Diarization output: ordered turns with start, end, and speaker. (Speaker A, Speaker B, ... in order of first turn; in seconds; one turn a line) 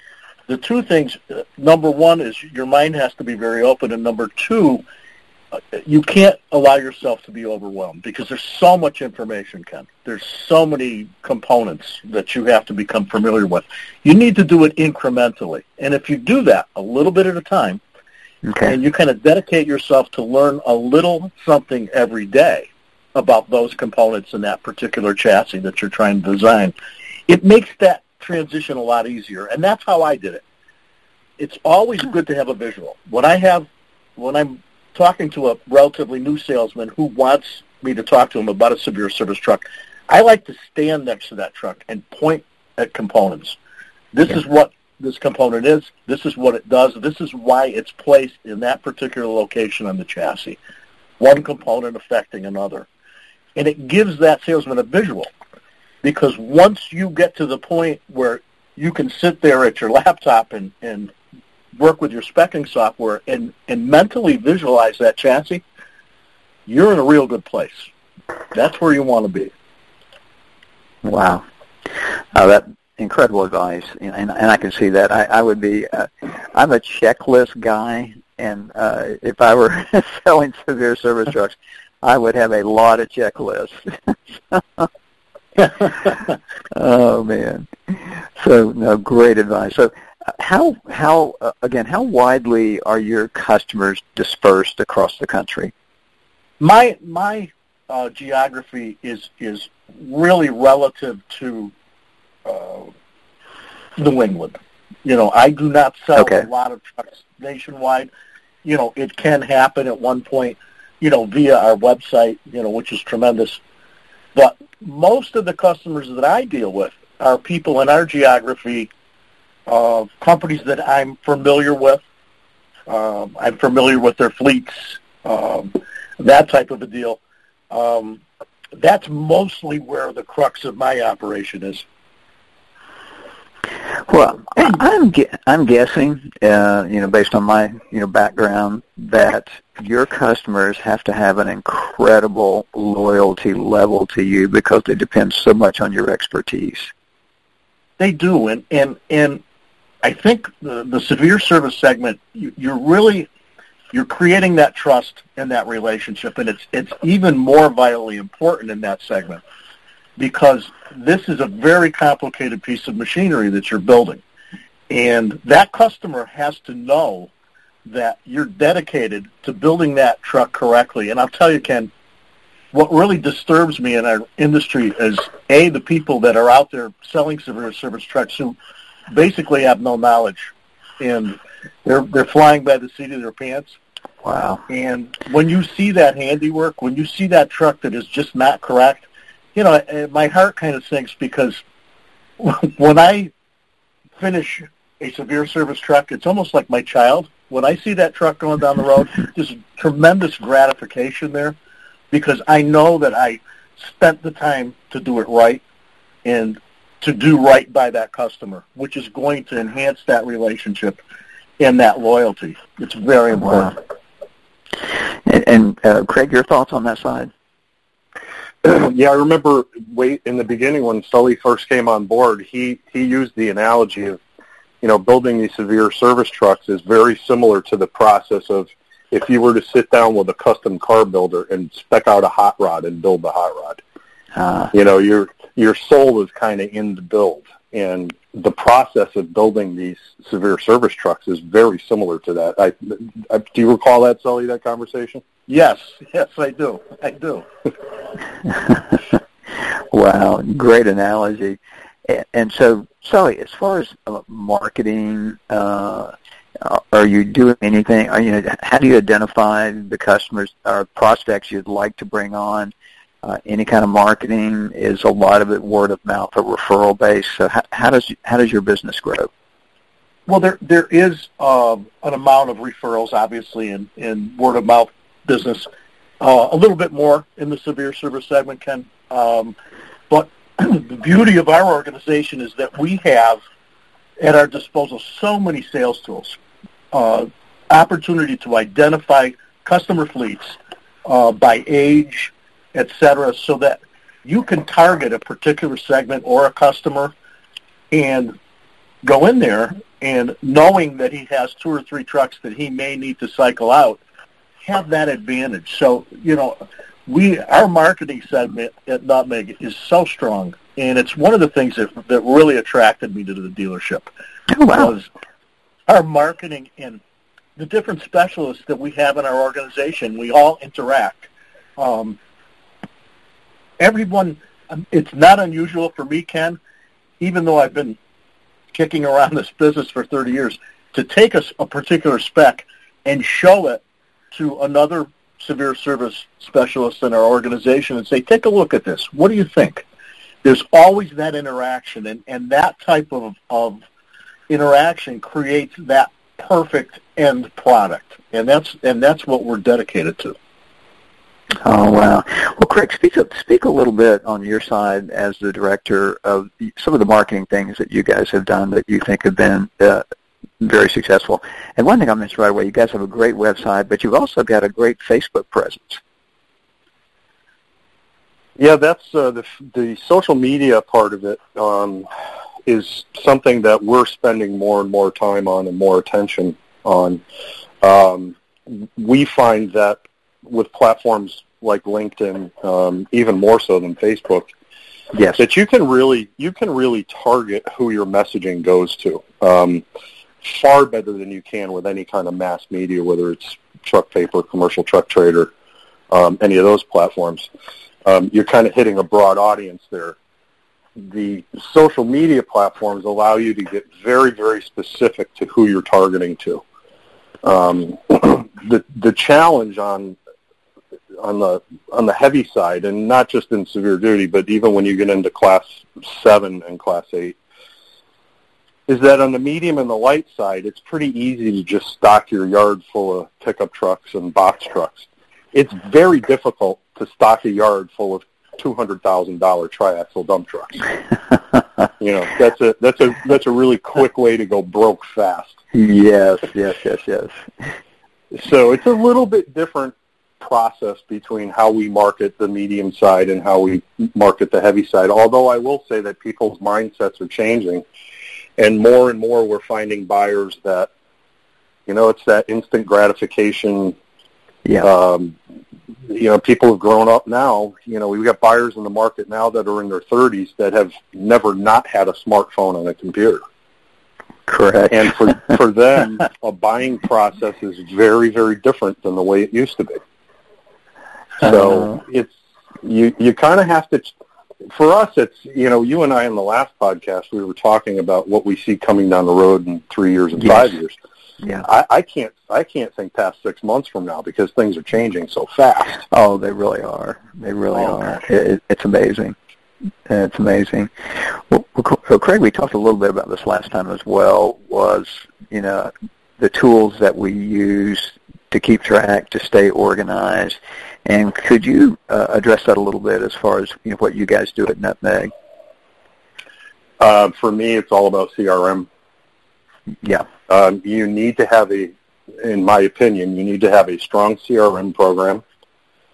Speaker A: 0.5-4.8
Speaker A: 5.7-17.8
Speaker B: 18.4-18.8
Speaker A: 18.6-26.7
Speaker A: 27.3-30.4
Speaker A: 31.4-43.6
Speaker A: 44.1-50.6
Speaker A: 51.2-52.9
Speaker A: 53.5-55.3
Speaker A: 56.0-61.1
Speaker A: 61.8-65.6
Speaker A: 66.7-67.9
Speaker A: 68.5-69.5
Speaker B: 71.0-71.4
Speaker B: 72.3-84.9
Speaker B: 86.7-95.7
Speaker A: 96.6-101.7
Speaker A: 102.5-102.9
Speaker A: 104.0-108.1
Speaker B: 106.2-106.4
Speaker A: 108.6-113.6
Speaker A: 114.3-118.9
Speaker A: 119.7-122.0
Speaker A: 122.9-127.2
Speaker A: 127.7-128.2
Speaker A: 128.8-131.8
Speaker B: 134.1-146.9
Speaker A: 148.0-149.4
Speaker A: 150.0-153.3
Speaker A: 153.9-159.4
Speaker A: 160.2-164.2
Speaker A: 164.9-167.3
Speaker A: 167.8-171.9
Speaker A: 172.7-178.6
Speaker A: 179.1-183.8
Speaker B: 184.2-184.6
Speaker A: 184.7-191.6
Speaker A: 192.4-193.3
Speaker A: 194.2-201.6
Speaker A: 202.1-205.6
Speaker A: 206.2-211.0
Speaker A: 211.6-213.8
Speaker B: 215.2-217.3
Speaker C: 218.6-224.2
Speaker C: 224.8-233.8
Speaker B: 234.3-234.7
Speaker C: 234.7-245.2
Speaker A: 245.5-247.5
Speaker B: 248.4-262.7
Speaker B: 263.2-269.3
Speaker A: 270.3-275.7
Speaker A: 276.2-279.5
Speaker A: 280.1-283.4
Speaker A: 284.2-286.4
Speaker A: 286.9-297.1
Speaker A: 297.9-298.4
Speaker A: 299.0-304.0
Speaker A: 304.6-314.1
Speaker B: 314.5-314.9
Speaker A: 314.7-315.1
Speaker A: 315.9-317.0
Speaker A: 317.6-322.2
Speaker A: 323.8-326.6
Speaker A: 327.2-328.0
Speaker A: 328.7-333.8
Speaker A: 334.3-339.9
Speaker A: 340.4-343.8
Speaker A: 344.5-350.3
Speaker B: 351.6-360.0
Speaker B: 360.6-366.0
Speaker C: 368.6-372.1
Speaker C: 372.6-377.2
Speaker C: 377.8-384.5
Speaker B: 385.1-385.4
Speaker C: 385.3-389.8
Speaker C: 390.4-395.5
Speaker C: 396.1-397.5
Speaker C: 398.0-400.1
Speaker C: 401.0-406.6
Speaker C: 407.4-410.1
Speaker C: 411.2-417.4
Speaker C: 418.9-430.9
Speaker C: 432.0-435.6
Speaker B: 435.7-437.7
Speaker C: 438.3-447.8
Speaker C: 448.6-450.9
Speaker C: 451.9-453.9
Speaker C: 454.8-455.4
Speaker C: 456.1-463.4
Speaker B: 464.5-465.4
Speaker C: 464.9-470.0
Speaker C: 471.4-474.1
Speaker B: 471.4-472.0
Speaker C: 474.7-481.0
Speaker B: 480.4-480.7
Speaker C: 481.6-486.0
Speaker B: 486.1-489.3
Speaker B: 490.1-505.3
Speaker C: 507.0-508.9
Speaker C: 510.5-515.4